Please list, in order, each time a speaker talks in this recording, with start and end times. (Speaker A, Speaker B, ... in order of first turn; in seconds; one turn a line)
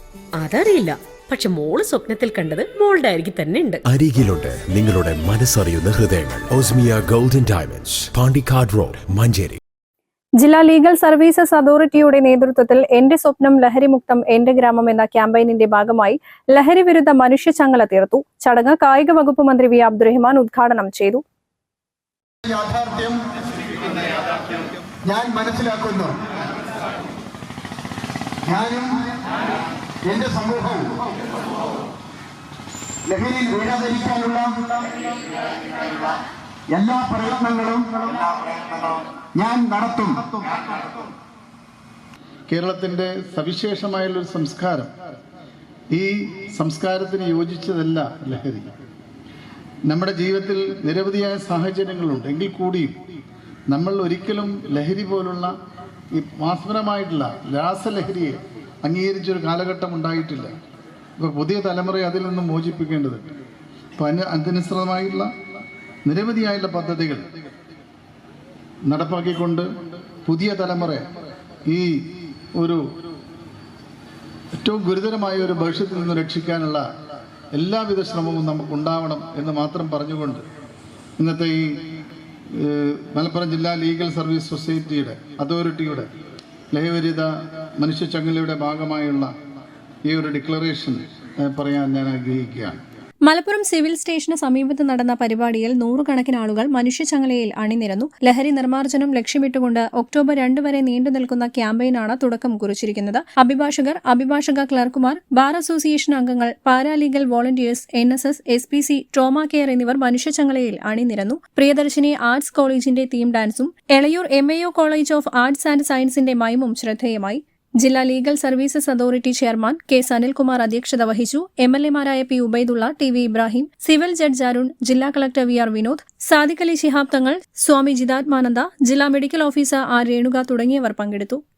Speaker A: 0.3-3.8
Speaker B: 3.9-9.6
Speaker C: 10.4-21.2
Speaker D: 22.4-23.2
Speaker D: 25.1-26.1
Speaker D: 28.4-28.9
Speaker D: 30.1-30.9
Speaker D: 33.0-34.6
Speaker D: 36.7-40.4
Speaker E: 42.5-44.9
Speaker E: 45.9-48.7
Speaker E: 49.9-53.0
Speaker E: 53.7-55.5
Speaker E: 56.1-60.5
Speaker E: 61.2-63.2
Speaker E: 64.0-65.3
Speaker E: 66.0-67.2
Speaker E: 68.9-69.7
Speaker E: 70.2-71.1
Speaker E: 74.6-76.8
Speaker E: 77.5-80.4
Speaker E: 81.2-81.8
Speaker E: 82.5-86.1
Speaker E: 86.7-89.3
Speaker E: 90.1-92.8
Speaker C: 93.2-131.4